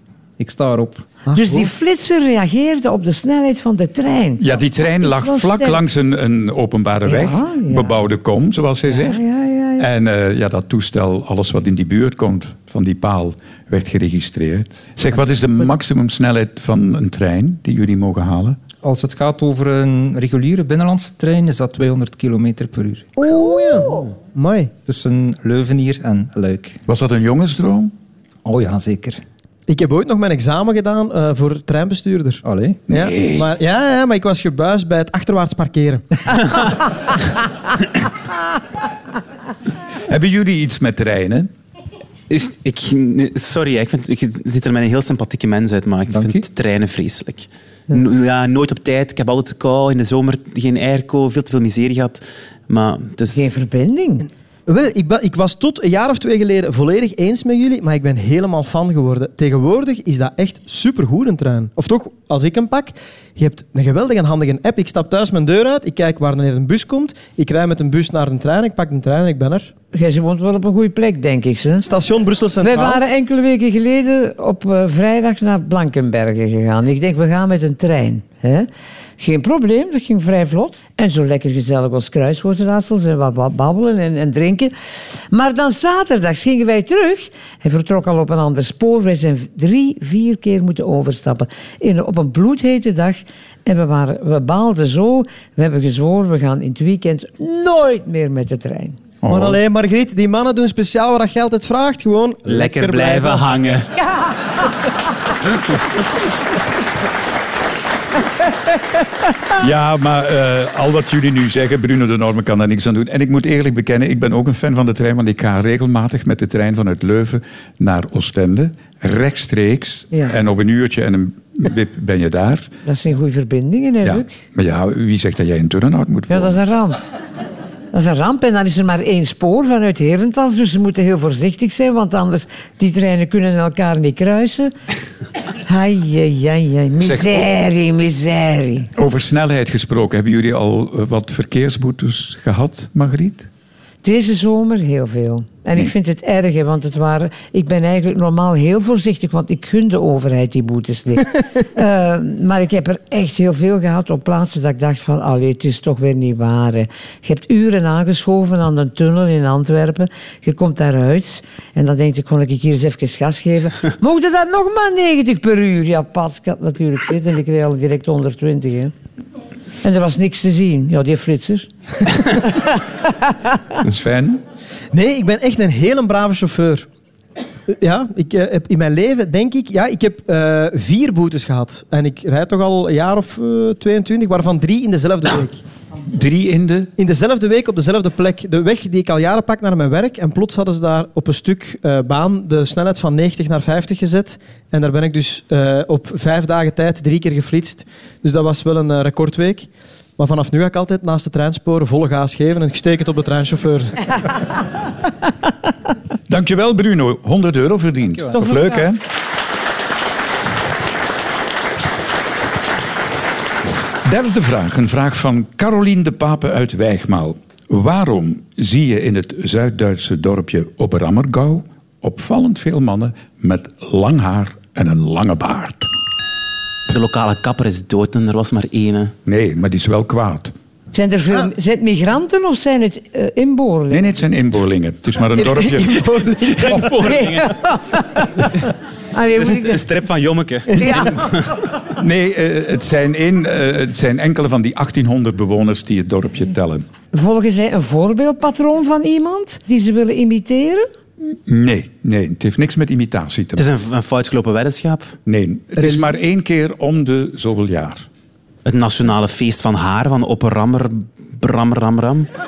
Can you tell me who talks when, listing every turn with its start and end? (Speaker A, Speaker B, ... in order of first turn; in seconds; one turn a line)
Speaker A: 0.4-1.1
Speaker B: 1.3-1.7
Speaker C: 1.3-5.8
Speaker D: 4.4-9.2
Speaker C: 7.0-7.9
Speaker C: 8.9-9.8
Speaker D: 9.8-18.6
Speaker A: 18.8-23.1
Speaker B: 23.2-24.7
Speaker A: 24.8-26.8
Speaker D: 26.9-27.9
Speaker A: 28.4-29.2
Speaker B: 29.7-36.0
Speaker A: 32.4-32.8
Speaker D: 32.9-33.5
Speaker D: 40.1-41.5
Speaker E: 42.3-53.5
Speaker A: 46.1-46.4
Speaker C: 53.3-54.3
Speaker B: 54.7-69.7
Speaker C: 69.9-71.8
Speaker B: 71.8-73.0
Speaker C: 72.6-78.7
Speaker C: 79.2-84.7
Speaker C: 85.3-99.0
Speaker D: 99.2-99.6
Speaker B: 99.3-103.8
Speaker E: 102.5-103.9
Speaker D: 109.5-122.7
Speaker C: 122.8-124.3
Speaker D: 124.0-126.6
Speaker C: 126.3-127.0
Speaker C: 127.9-134.7
Speaker C: 135.7-138.9
Speaker D: 137.0-137.5
Speaker D: 138.9-143.5
Speaker C: 144.0-168.9
Speaker C: 169.8-172.8
Speaker D: 173.8-174.4
Speaker B: 174.9-176.9
Speaker B: 177.7-185.6
Speaker D: 186.1-186.9
Speaker B: 187.0-204.2
Speaker D: 206.3-209.0
Speaker C: 208.4-208.8
Speaker D: 214.0-225.9
Speaker E: 226.9-229.1
Speaker D: 229.2-230.5
Speaker C: 230.9-234.1
Speaker D: 233.9-236.8
Speaker B: 235.3-237.0
Speaker E: 236.5-237.6
Speaker C: 237.0-239.8
Speaker E: 239.3-241.6
Speaker C: 240.8-241.3
Speaker D: 241.9-246.8
Speaker C: 247.1-250.9
Speaker D: 251.4-253.7
Speaker E: 253.6-255.2
Speaker D: 255.2-258.1
Speaker B: 255.8-256.1
Speaker E: 258.6-262.3